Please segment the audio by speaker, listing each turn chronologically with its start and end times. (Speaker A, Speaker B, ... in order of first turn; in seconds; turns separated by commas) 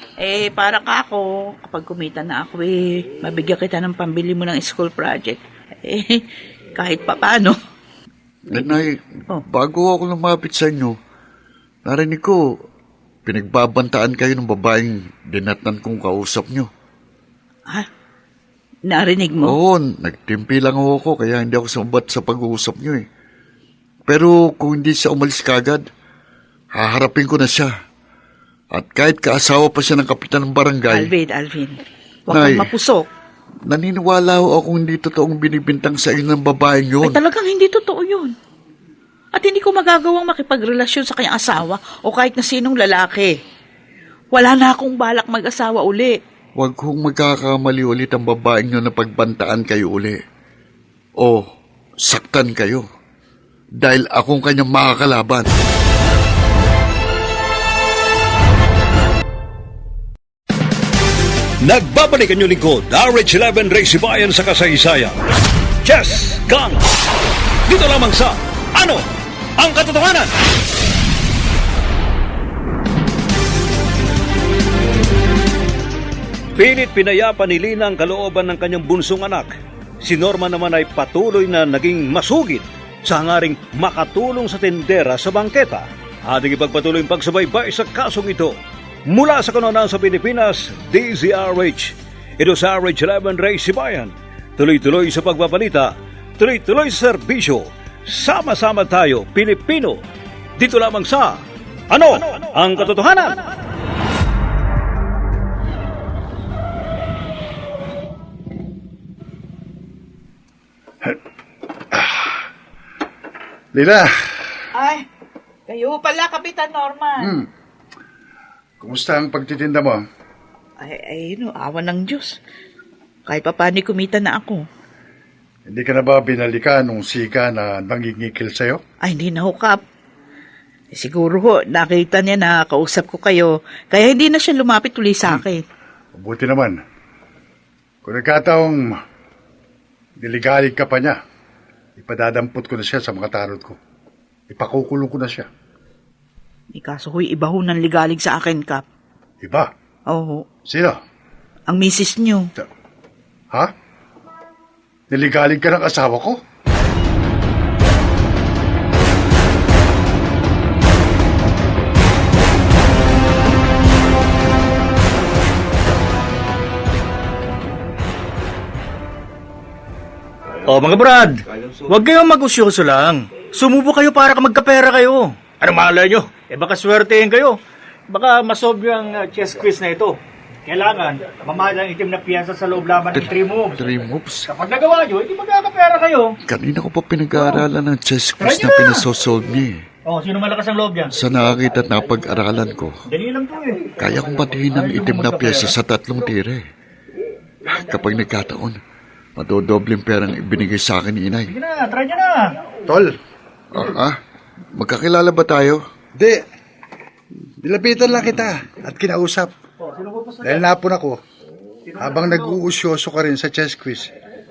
Speaker A: 0.2-6.2, Speaker A: 6.8-7.5, Speaker B: 8.5-10.9, Speaker B: 11.8-12.4, Speaker B: 13.2-16.7, Speaker A: 18.9-19.6, Speaker B: 19.4-23.0, Speaker B: 24.1-25.9, Speaker B: 26.7-27.7, Speaker B: 28.7-31.1, Speaker A: 30.9-33.0, Speaker B: 32.3-32.7, Speaker B: 33.6-37.2, Speaker A: 37.0-38.3, Speaker A: 39.3-43.3, Speaker A: 44.3-46.2, Speaker B: 46.5-50.2, Speaker B: 51.2-51.5, Speaker B: 52.0-52.8, Speaker B: 53.8-55.5, Speaker C: 61.6-65.2, Speaker C: 65.8-66.8, Speaker C: 67.7-69.0, Speaker C: 69.6-70.3, Speaker C: 76.5-88.5, Speaker C: 89.1-100.0, Speaker C: 100.6-103.4, Speaker D: 111.9-112.3, Speaker D: 113.7-114.1, Speaker A: 114.7-115.0, Speaker A: 115.7-117.3, Speaker D: 117.2-117.5, Speaker D: 118.8-120.0, Speaker A: 120.8-122.4, Speaker A: 123.2-124.6, Speaker D: 125.7-128.8, Speaker A: 129.0-129.8, Speaker A: 130.9-135.6, Speaker D: 136.1-136.8, Speaker D: 138.0-138.9, Speaker D: 140.2-141.2, Speaker D: 142.0-143.8, Speaker D: 144.5-145.5, Speaker A: 146.7-148.8, Speaker D: 149.4-149.7, Speaker A: 150.1-150.4, Speaker D: 150.7-150.9, Speaker A: 151.7-152.5, Speaker D: 155.1-156.4, Speaker E: 170.6-183.8, Speaker B: 183.1-184.5, Speaker E: 184.5-186.3, Speaker B: 186.4-189.8, Speaker E: 188.4-189.1, Speaker E: 190.1-191.1, Speaker B: 191.1-193.0, Speaker E: 193.1-193.9, Speaker B: 194.0-196.6, Speaker E: 194.7-195.7, Speaker B: 197.7-198.8, Speaker B: 199.4-201.5, Speaker E: 201.5-202.6, Speaker D: 202.9-203.1, Speaker B: 203.7-204.2, Speaker B: 204.7-205.8, Speaker D: 206.2-206.4, Speaker D: 207.6-209.5, Speaker E: 209.8-210.6, Speaker D: 210.4-211.2, Speaker E: 211.9-212.4, Speaker D: 212.0-214.1